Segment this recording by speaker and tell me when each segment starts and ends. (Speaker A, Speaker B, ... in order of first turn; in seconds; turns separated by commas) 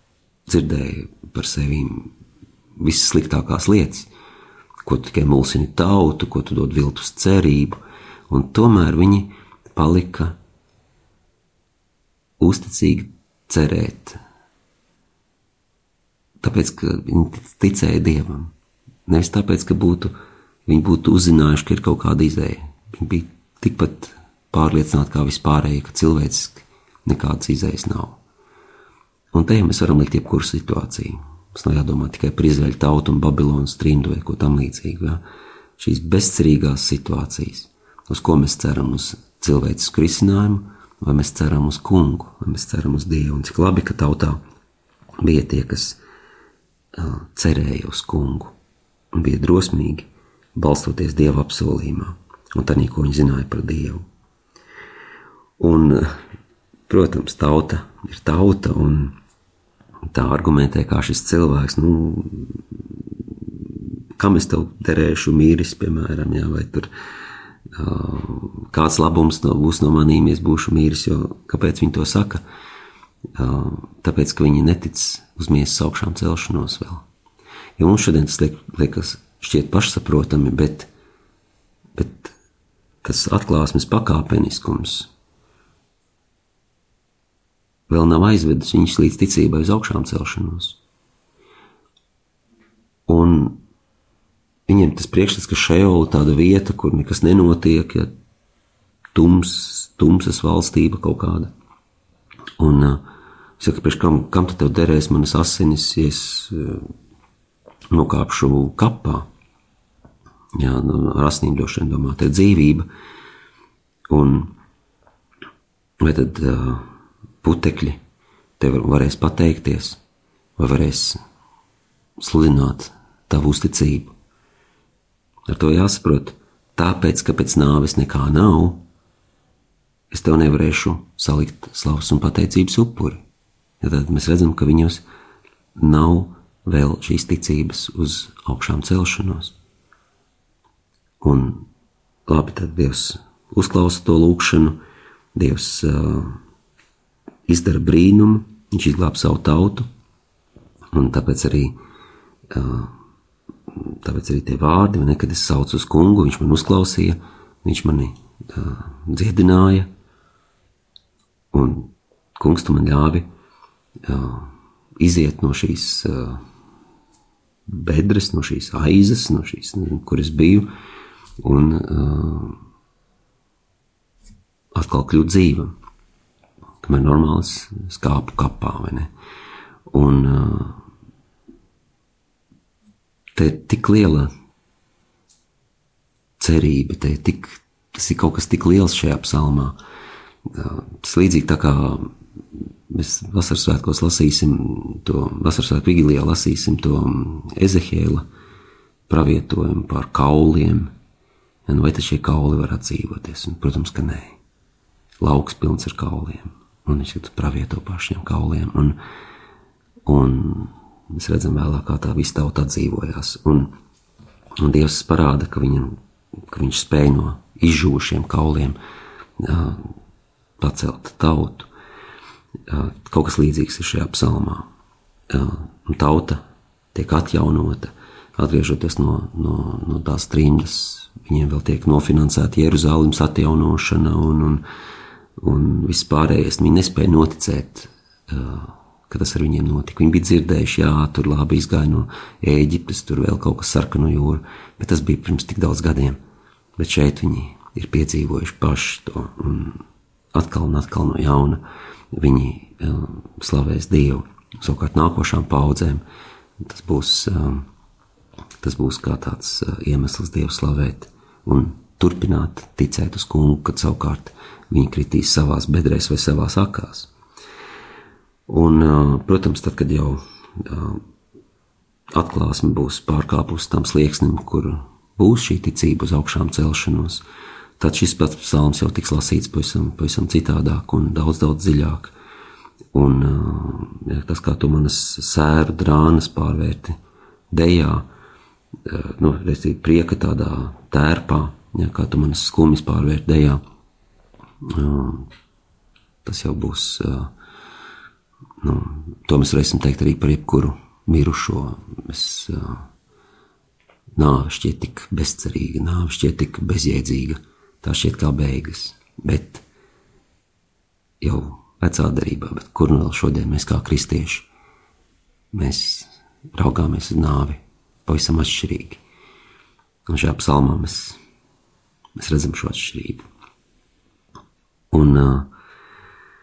Speaker A: 0.5-2.1, Speaker A: 2.8-4.1, Speaker A: 4.8-10.3, Speaker A: 12.4-14.2, Speaker A: 16.4-18.5, Speaker A: 19.1-20.1, Speaker A: 20.6-28.2, Speaker A: 29.3-35.2, Speaker A: 35.8-44.4, Speaker A: 45.2-46.0, Speaker A: 47.0-48.5, Speaker A: 49.1-54.0, Speaker A: 55.6-56.1, Speaker A: 56.9-59.1, Speaker A: 60.1-62.8, Speaker A: 64.2-66.9, Speaker A: 67.7-72.4, Speaker A: 73.3-77.0, Speaker A: 77.8-80.9, Speaker A: 82.0-82.3, Speaker A: 83.0-85.1, Speaker A: 87.9-90.8, Speaker A: 93.1-93.6, Speaker A: 94.7-98.1, Speaker A: 99.1-101.5, Speaker A: 102.6-103.0, Speaker A: 103.6-106.9, Speaker A: 107.9-109.3, Speaker A: 110.5-112.8, Speaker A: 114.1-114.5, Speaker A: 116.0-116.8, Speaker A: 117.4-118.0, Speaker A: 118.6-120.0, Speaker A: 120.6-121.2, Speaker A: 122.2-124.1, Speaker A: 125.5-128.8, Speaker A: 130.1-133.2, Speaker A: 133.8-135.0, Speaker A: 135.8-139.5, Speaker A: 141.2-141.7, Speaker A: 142.3-144.8, Speaker A: 145.3-146.4, Speaker A: 147.5-149.9, Speaker A: 150.9-151.7, Speaker A: 152.5-152.9, Speaker A: 153.9-159.9, Speaker A: 161.5-163.3, Speaker A: 164.1-166.4, Speaker A: 167.7-170.7, Speaker A: 171.4-172.6, Speaker A: 174.7-175.7, Speaker A: 176.8-179.1, Speaker A: 179.9-180.8, Speaker A: 183.3-184.3, Speaker A: 186.4-189.8, Speaker A: 190.5-192.1, Speaker A: 192.9-198.2, Speaker A: 199.1-200.9, Speaker A: 201.7-204.4, Speaker A: 205.2-209.0, Speaker A: 210.1-213.7, Speaker A: 214.6-215.9, Speaker A: 216.5-218.8, Speaker A: 219.4-219.9, Speaker A: 220.6-221.7, Speaker A: 222.7-224.7, Speaker A: 225.3-226.4, Speaker A: 226.9-234.6, Speaker A: 235.4-246.2, Speaker A: 246.8-249.8, Speaker A: 250.3-251.6, Speaker A: 252.1-256.0, Speaker A: 256.6-257.6, Speaker A: 258.6-267.1, Speaker A: 268.5-271.0, Speaker A: 272.1-277.2, Speaker A: 277.8-282.1, Speaker A: 282.9-286.9, Speaker A: 287.5-288.1, Speaker A: 288.9-293.6, Speaker A: 294.6-295.3, Speaker A: 296.2-297.3, Speaker A: 298.6-302.8, Speaker A: 304.1-309.6, Speaker A: 311.2-314.5, Speaker A: 315.5-319.0, Speaker A: 320.1-321.2, Speaker A: 322.2-323.2, Speaker A: 324.9-325.5